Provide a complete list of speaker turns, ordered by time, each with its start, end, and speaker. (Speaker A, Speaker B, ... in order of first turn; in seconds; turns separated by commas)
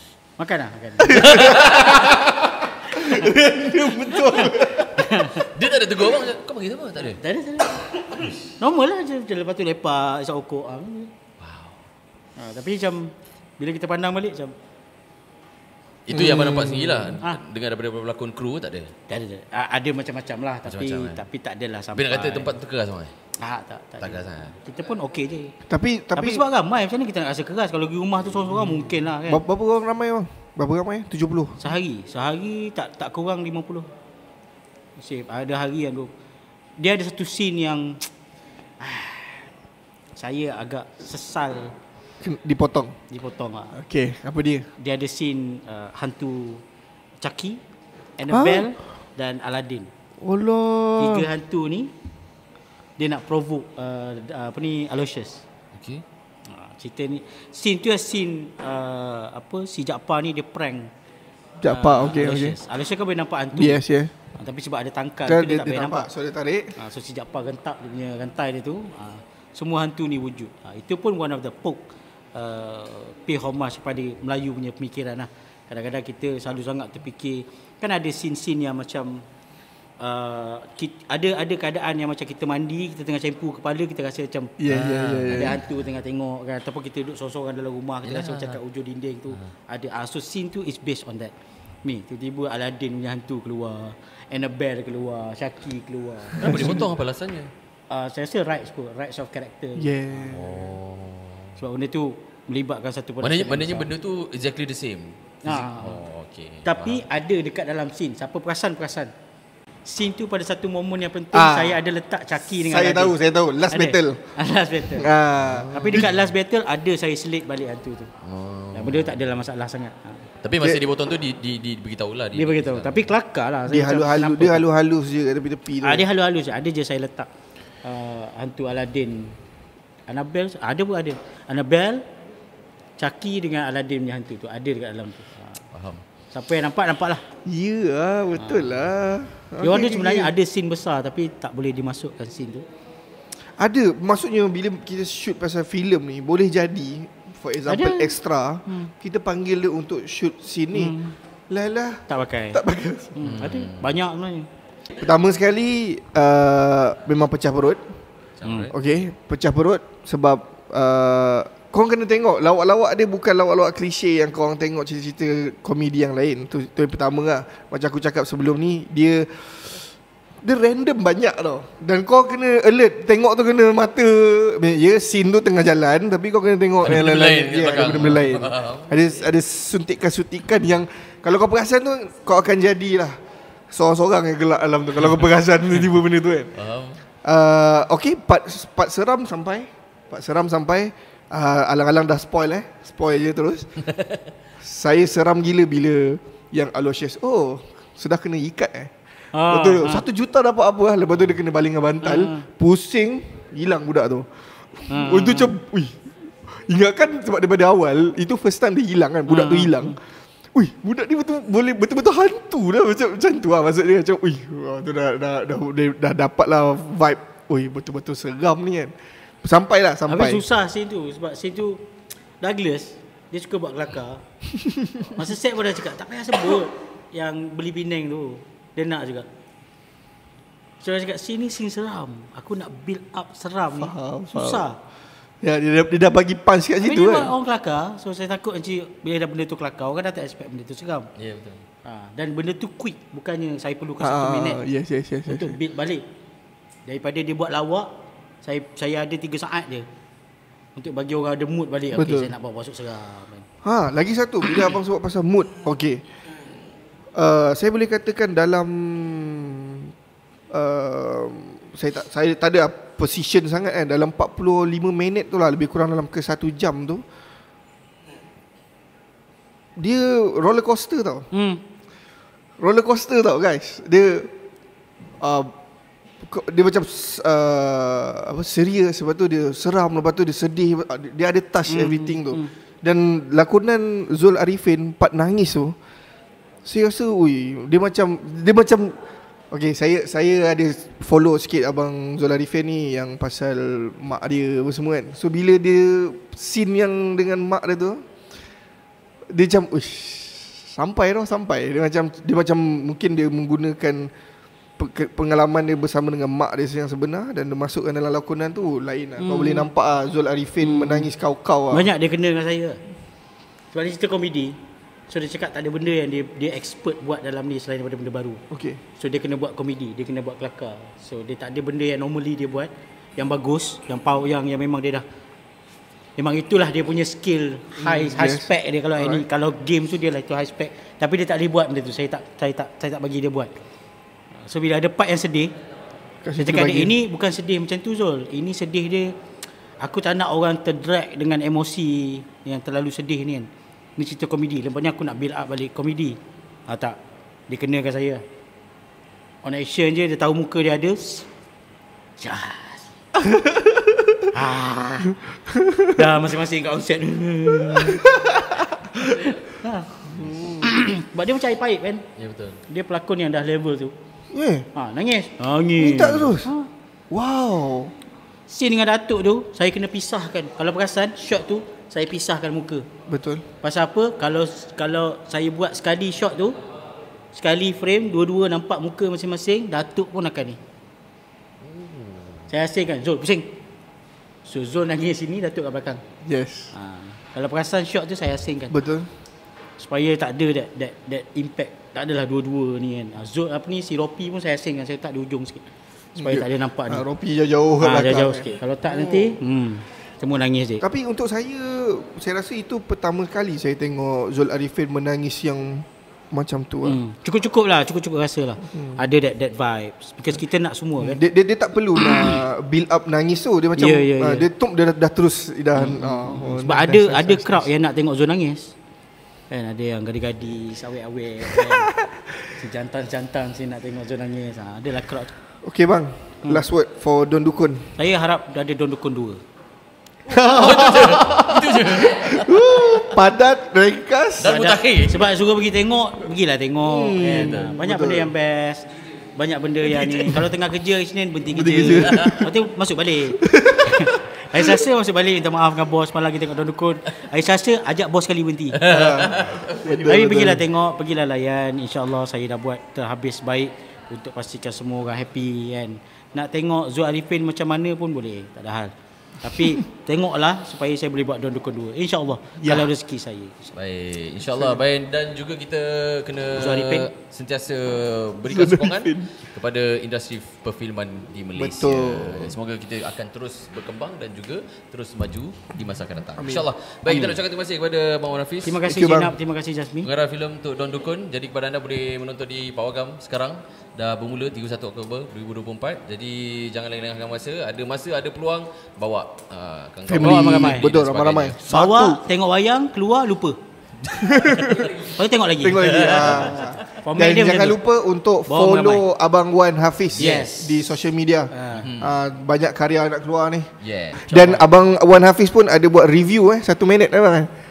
Speaker A: 0.4-2.0, Speaker B: 1.0-4.9, Speaker C: 1.2-2.2, Speaker A: 2.9-5.5, Speaker C: 5.2-7.2, Speaker A: 7.2-11.1, Speaker C: 11.4-11.8, Speaker A: 12.4-14.5, Speaker C: 16.1-18.9, Speaker B: 16.1-17.2, Speaker A: 19.1-22.5, Speaker C: 20.6-21.2, Speaker C: 21.9-23.1, Speaker A: 23.4-25.6, Speaker C: 24.0-24.6, Speaker B: 25.7-26.4, Speaker A: 26.1-29.4, Speaker B: 29.3-31.6, Speaker A: 31.6-33.9, Speaker A: 35.0-36.1, Speaker A: 36.8-38.1, Speaker A: 38.8-39.5, Speaker A: 40.1-41.7, Speaker B: 42.2-43.0, Speaker A: 43.1-43.8, Speaker B: 43.7-44.7, Speaker A: 44.8-46.6, Speaker A: 47.2-47.6, Speaker A: 48.2-49.9, Speaker B: 48.3-48.8, Speaker B: 50.2-51.3, Speaker A: 51.0-51.9, Speaker A: 53.0-55.4, Speaker C: 55.7-56.0, Speaker A: 56.5-60.9, Speaker B: 61.6-62.6, Speaker A: 61.7-63.8, Speaker B: 63.5-64.1, Speaker A: 64.3-66.1, Speaker B: 65.2-66.7, Speaker A: 66.8-79.2, Speaker A: 80.0-84.5, Speaker B: 84.6-85.6, Speaker C: 84.7-85.5, Speaker A: 85.3-96.8, Speaker C: 88.0-88.6, Speaker B: 96.3-96.9, Speaker C: 96.4-97.5, Speaker A: 97.9-99.9, Speaker B: 99.8-100.7, Speaker C: 100.2-101.5, Speaker A: 101.6-103.9, Speaker C: 103.2-107.0, Speaker A: 105.4-106.0, Speaker A: 106.6-109.1, Speaker A: 109.8-113.2, Speaker B: 111.3-111.8, Speaker B: 112.6-114.3, Speaker A: 113.7-115.1, Speaker B: 115.0-116.1, Speaker C: 115.4-116.3, Speaker A: 115.6-118.1, Speaker C: 118.2-119.2, Speaker A: 118.7-120.3, Speaker C: 120.4-123.1, Speaker A: 122.3-124.6, Speaker B: 123.7-126.0, Speaker A: 125.8-127.3, Speaker A: 127.8-129.4, Speaker A: 130.1-132.0, Speaker A: 133.0-135.6, Speaker C: 135.7-136.0, Speaker A: 136.3-137.2, Speaker B: 137.4-140.3, Speaker A: 138.4-138.7, Speaker A: 139.6-142.7, Speaker B: 143.6-151.0, Speaker A: 147.7-148.9, Speaker A: 150.7-151.2, Speaker B: 151.5-153.3, Speaker A: 152.1-152.6, Speaker A: 153.1-154.5, Speaker C: 153.2-153.9, Speaker B: 155.0-157.9, Speaker C: 158.4-158.7, Speaker A: 158.4-158.7, Speaker B: 158.7-169.8, Speaker B: 170.4-183.2, Speaker C: 176.8-179.1, Speaker B: 183.7-186.5, Speaker C: 186.6-187.0, Speaker B: 187.2-193.7, Speaker C: 193.9-194.2, Speaker B: 194.6-198.9, Speaker A: 199.3-200.0, Speaker B: 199.4-210.0, Speaker A: 202.0-202.4, Speaker A: 204.9-205.5, Speaker A: 209.3-210.0, Speaker B: 210.5-220.4, Speaker A: 220.1-221.8, Speaker A: 222.4-224.2, Speaker B: 224.5-225.2, Speaker A: 225.1-229.3, Speaker A: 230.8-234.8, Speaker B: 233.8-234.7, Speaker B: 235.4-237.3, Speaker A: 236.8-241.1, Speaker C: 241.2-241.6, Speaker A: 241.8-244.6, Speaker B: 244.0-245.6, Speaker A: 245.3-246.0, Speaker A: 246.8-247.9, Speaker A: 248.4-249.9, Speaker A: 250.8-253.5, Speaker B: 251.9-252.3, Speaker B: 253.6-256.0, Speaker B: 257.1-259.9, Speaker B: 260.5-267.0, Speaker B: 269.8-271.2, Speaker A: 271.3-271.6, Speaker B: 272.6-274.3, Speaker B: 275.2-275.5, Speaker B: 276.2-285.7, Speaker A: 281.7-282.5, Speaker B: 286.6-289.0, Speaker B: 289.5-298.0, Speaker B: 299.3-304.1, Speaker B: 304.8-311.9, Speaker A: 309.2-309.7, Speaker A: 310.6-311.1, Speaker A: 311.7-312.8, Speaker A: 313.7-314.6, Speaker A: 315.1-318.4, Speaker B: 318.5-318.8, Speaker A: 319.0-325.0, Speaker A: 326.2-333.5, Speaker B: 327.8-329.2, Speaker A: 334.4-335.5, Speaker B: 336.2-336.9, Speaker A: 336.4-339.1, Speaker A: 339.8-347.0, Speaker A: 347.5-348.2, Speaker A: 349.4-351.3, Speaker A: 352.2-352.9, Speaker B: 353.2-354.2, Speaker A: 354.3-355.2, Speaker B: 355.5-356.0, Speaker A: 355.9-358.0, Speaker B: 357.6-359.2, Speaker C: 359.1-359.4, Speaker A: 359.2-359.9, Speaker C: 360.1-360.6, Speaker B: 360.1-360.7, Speaker A: 360.6-362.1, Speaker C: 362.1-362.6, Speaker A: 362.7-363.9, Speaker B: 364.3-364.7, Speaker A: 364.7-366.7, Speaker B: 365.8-366.5, Speaker B: 367.1-367.9, Speaker A: 368.5-372.9, Speaker B: 373.1-373.4, Speaker A: 373.6-376.6, Speaker A: 377.3-380.6, Speaker C: 381.6-382.4, Speaker A: 382.5-383.6, Speaker A: 384.4-386.0, Speaker B: 386.2-386.7, Speaker A: 386.7-388.8, Speaker B: 388.7-389.1, Speaker A: 389.8-397.1, Speaker B: 396.2-399.4, Speaker A: 397.8-400.8, Speaker B: 400.8-407.0, Speaker A: 406.8-411.2, Speaker B: 408.7-409.0, Speaker B: 411.0-417.7, Speaker A: 412.0-412.4, Speaker A: 413.8-414.5, Speaker A: 415.7-418.7, Speaker A: 419.5-421.9, Speaker A: 422.5-425.3, Speaker B: 425.6-427.9, Speaker A: 428.0-429.4, Speaker B: 430.2-434.6, Speaker C: 430.4-433.2, Speaker C: 434.4-435.3, Speaker A: 434.4-449.0, Speaker B: 436.8-438.3, Speaker C: 437.2-437.7, Speaker B: 440.1-440.4, Speaker B: 441.5-442.4, Speaker C: 442.0-442.3, Speaker B: 443.4-444.7, Speaker C: 448.8-449.9, Speaker B: 448.9-450.6, Speaker A: 450.0-463.7, Speaker B: 462.6-462.9, Speaker C: 463.8-478.9, Speaker B: 464.5-464.8, Speaker A: 466.6-467.1, Speaker B: 468.5-469.3, Speaker B: 471.5-472.6, Speaker B: 476.4-476.7, Speaker A: 477.1-477.4, Speaker A: 478.6-480.1, Speaker B: 478.9-479.3, Speaker C: 480.0-491.6, Speaker B: 490.1-492.2, Speaker A: 490.2-490.9, Speaker A: 491.7-493.6, Speaker B: 494.1-494.9, Speaker C: 494.4-495.1, Speaker A: 495.0-497.8, Speaker B: 495.6-507.5, Speaker C: 495.8-496.9, Speaker A: 498.5-499.0, Speaker C: 500.1-500.5, Speaker A: 500.1-500.9, Speaker A: 501.5-501.9, Speaker C: 501.7-502.1, Speaker C: 503.8-504.6